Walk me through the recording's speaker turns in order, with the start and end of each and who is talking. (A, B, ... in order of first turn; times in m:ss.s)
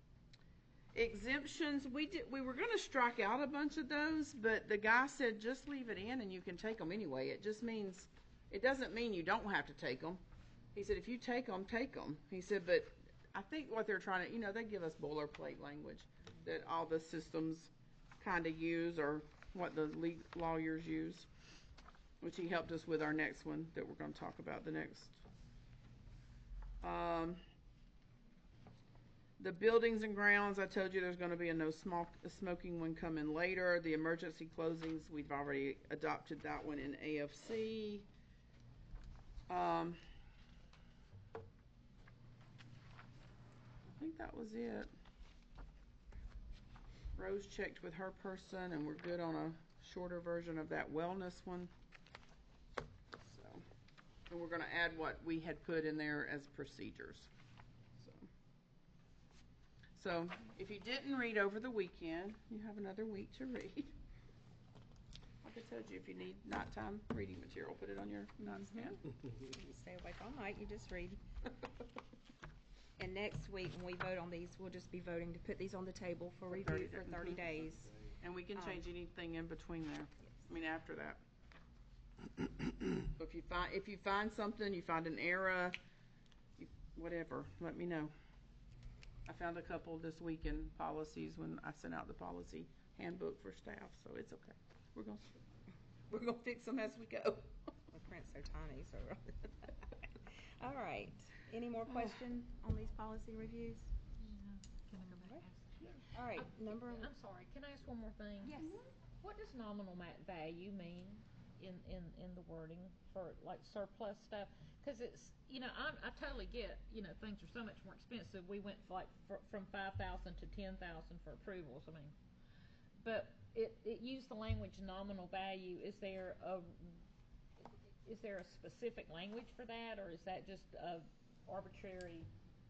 0:00.9-0:10.2 A
0:10.7-0:21.3 A
0:22.2-0:25.2 A
0:26.8-0:27.4 A
0:29.4-0:38.1 A
0:39.5-0:40.0 A
0:43.9-0:44.9 A
0:47.2-0:51.7 A
0:53.2-0:53.6 A
0:54.3-0:57.3 A
0:58.0-0:58.3 A
1:00.0-1:03.9 A
1:05.4-1:09.0 A
1:08.5-1:11.2 B
1:13.0-1:18.0 B
1:16.5-1:17.4 A
1:18.2-1:21.2 A
1:18.6-1:18.8 B
1:22.4-1:25.8 A
1:26.6-1:28.1 A
1:29.3-1:35.4 A
1:36.1-1:37.5 A
1:37.9-1:43.9 B
1:44.2-2:02.2 C
1:45.0-1:45.4 B
1:46.1-1:47.1 B
1:48.4-1:48.8 B
2:03.0-2:07.0 C
2:07.6-2:12.3 C